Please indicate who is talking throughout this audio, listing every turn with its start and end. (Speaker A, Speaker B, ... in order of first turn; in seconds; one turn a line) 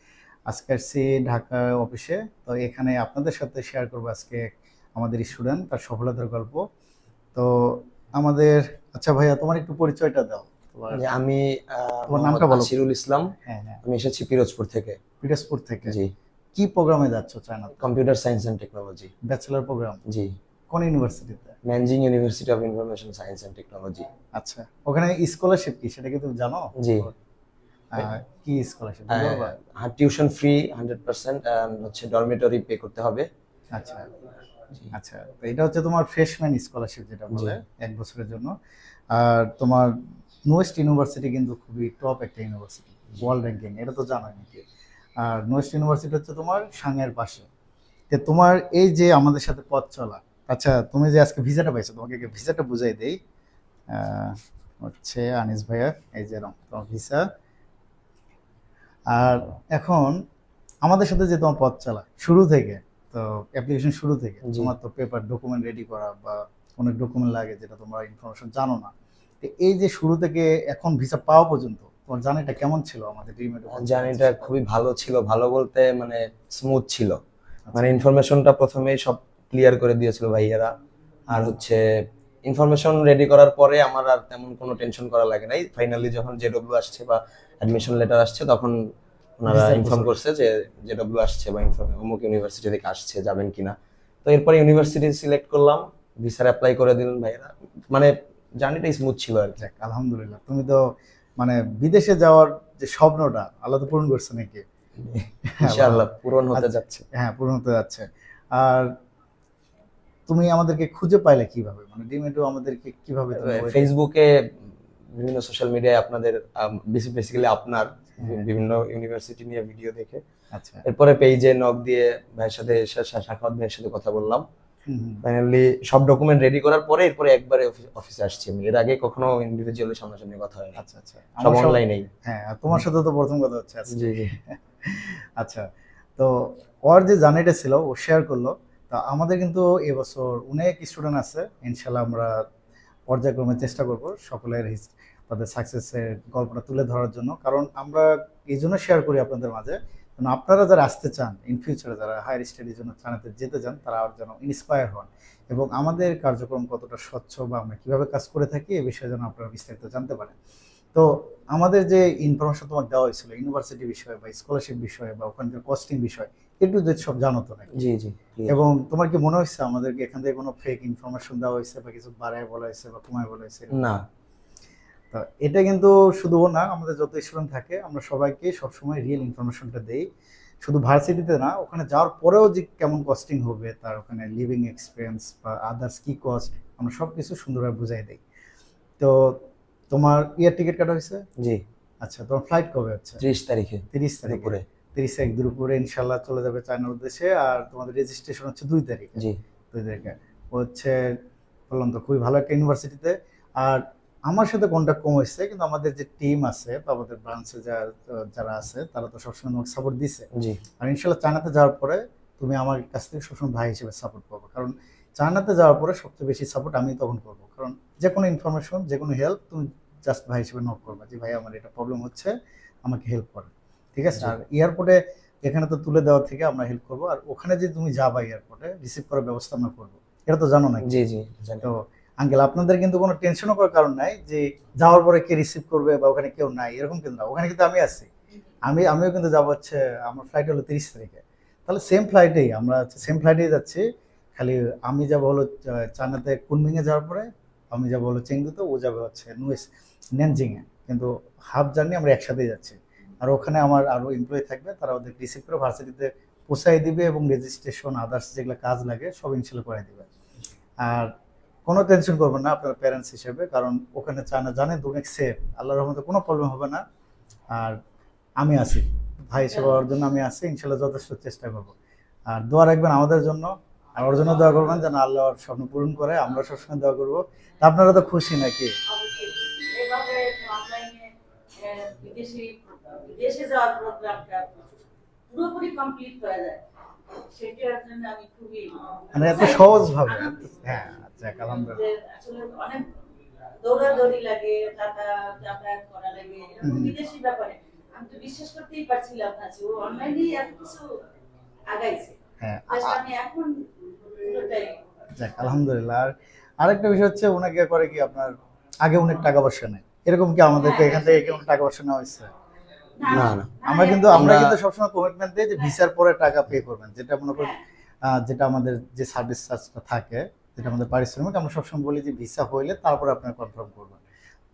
Speaker A: 0.5-6.6
Speaker A: 7.3-11.0
Speaker B: 10.9-13.3
Speaker A: 12.1-12.7
Speaker A: 13.4-13.8
Speaker B: 13.8-15.0
Speaker A: 15.2-15.9
Speaker B: 15.9-16.1
Speaker A: 16.5-17.8
Speaker B: 17.8-19.1
Speaker A: 19.2-20.0
Speaker B: 20.1-20.3
Speaker A: 20.7-21.5
Speaker B: 21.6-24.1
Speaker A: 24.4-27.1
Speaker B: 26.8-27.1
Speaker A: 27.9-29.5
Speaker B: 29.1-33.3
Speaker A: 33.7-34.1
Speaker A: 34.9-38.5
Speaker B: 37.3-37.6
Speaker A: 39.1-39.9
Speaker A: 40.5-44.6
Speaker A: 45.2-47.5
Speaker A: 48.1-53.2
Speaker A: 53.9-57.2
Speaker A: 59.1-60.2
Speaker A: 60.8-74.5
Speaker B: 64.5-64.7
Speaker B: 73.7-77.2
Speaker A: 77.7-78.0
Speaker B: 77.7-80.7
Speaker B: 81.3-81.8
Speaker B: 82.5-88.7
Speaker B: 89.4-99.6
Speaker A: 89.5-90.2
Speaker A: 99.6-100.8
Speaker A: 101.4-104.6
Speaker B: 105.0-107.0
Speaker A: 105.5-106.0
Speaker A: 106.5-108.9
Speaker A: 110.3-113.9
Speaker B: 113.4-120.2
Speaker A: 120.5-120.8
Speaker B: 120.8-124.4
Speaker A: 124.9-125.2
Speaker B: 125.2-130.8
Speaker A: 130.8-135.6
Speaker B: 131.4-132.1
Speaker B: 133.9-134.3
Speaker A: 136.2-142.4
Speaker A: 143.1-160.3
Speaker A: 160.9-167.7
Speaker B: 167.8-168.6
Speaker A: 168.5-173.7
Speaker B: 173.7-174.0
Speaker A: 175.1-180.0
Speaker A: 180.6-188.2
Speaker A: 189.0-189.4
Speaker A: 189.9-191.2
Speaker A: 192.0-193.2
Speaker B: 193.2-194.6
Speaker A: 193.9-201.2
Speaker A: 201.7-210.2
Speaker B: 210.3-210.6
Speaker A: 210.8-222.3
Speaker A: 222.8-231.0
Speaker B: 230.8-231.7
Speaker A: 231.6-238.1
Speaker A: 238.6-243.8
Speaker A: 244.3-260.1
Speaker A: 260.8-261.1
Speaker A: 261.7-266.8
Speaker A: 267.5-267.8
Speaker A: 268.4-271.7
Speaker C: 269.5-269.8
Speaker A: 272.3-278.7
Speaker C: 278.9-284.6
Speaker C: 285.3-286.6
Speaker C: 287.1-290.4
Speaker A: 289.1-291.8
Speaker C: 291.5-292.9
Speaker C: 293.6-300.8
Speaker A: 296.6-296.9
Speaker C: 301.7-302.1
Speaker A: 302.4-303.0
Speaker C: 302.7-303.6
Speaker C: 304.2-304.8
Speaker A: 305.2-312.3
Speaker C: 310.5-311.4
Speaker C: 313.0-314.3
Speaker B: 313.1-313.5
Speaker A: 313.6-324.0
Speaker B: 314.1-314.6